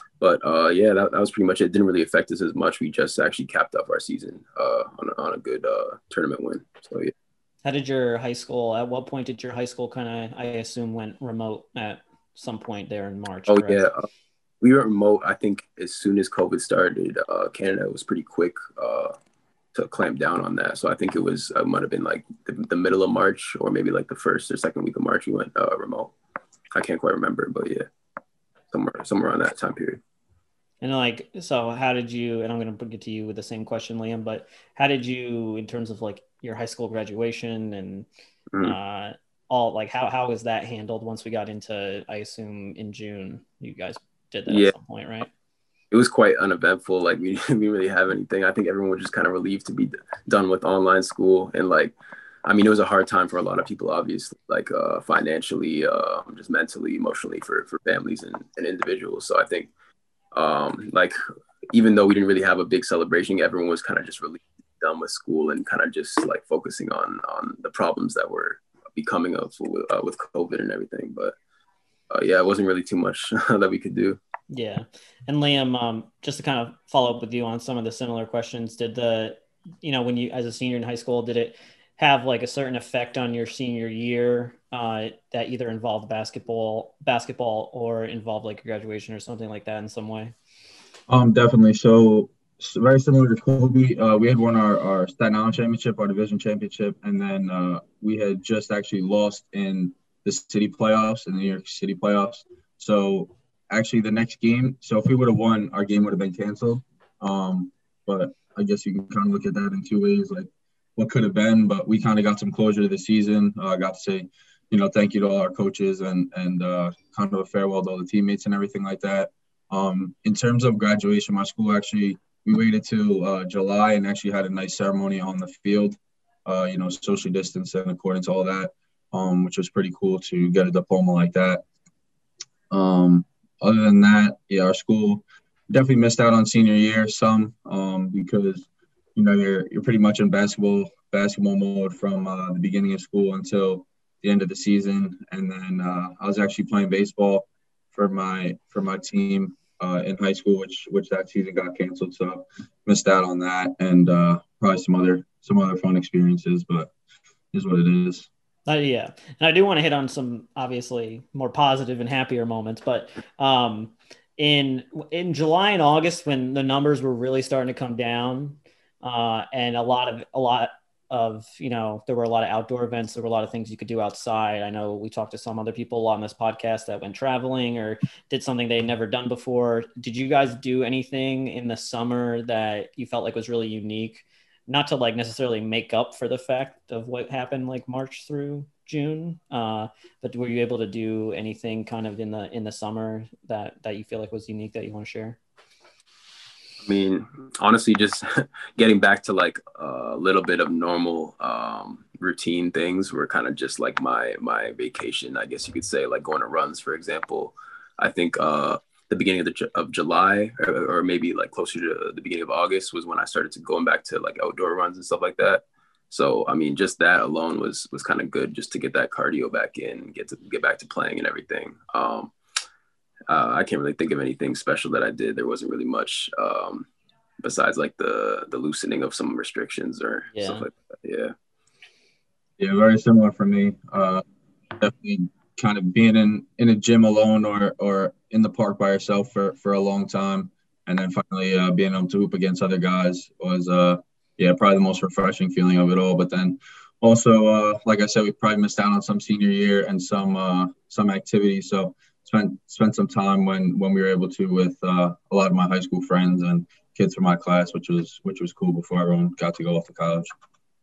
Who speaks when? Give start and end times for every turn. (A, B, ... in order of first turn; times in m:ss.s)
0:00.2-0:07.1 A
0:07.6-0:13.8 B
0:13.5-0:14.1 A
0:14.6-0:19.2 A
0:19.7-0:26.1 A
0:26.8-0:27.9 A
0:28.7-0:30.0 A
0:30.8-0:38.1 B
0:38.6-0:45.3 B
0:44.5-0:44.7 A
0:45.9-0:51.9 A
0:52.4-0:59.7 A
1:00.3-1:01.2 A
1:01.7-1:11.4 A
1:12.1-1:14.2 A
1:14.5-1:30.4 B
1:31.1-2:11.6 C
2:12.7-2:36.9 C
2:37.5-2:38.3 C
2:38.7-3:15.4 B
3:16.8-3:42.3 A
3:43.3-3:46.9 A
3:47.4-3:51.3 A
3:50.4-3:50.6 B
3:52.6-3:54.2 C
3:54.8-4:20.3 C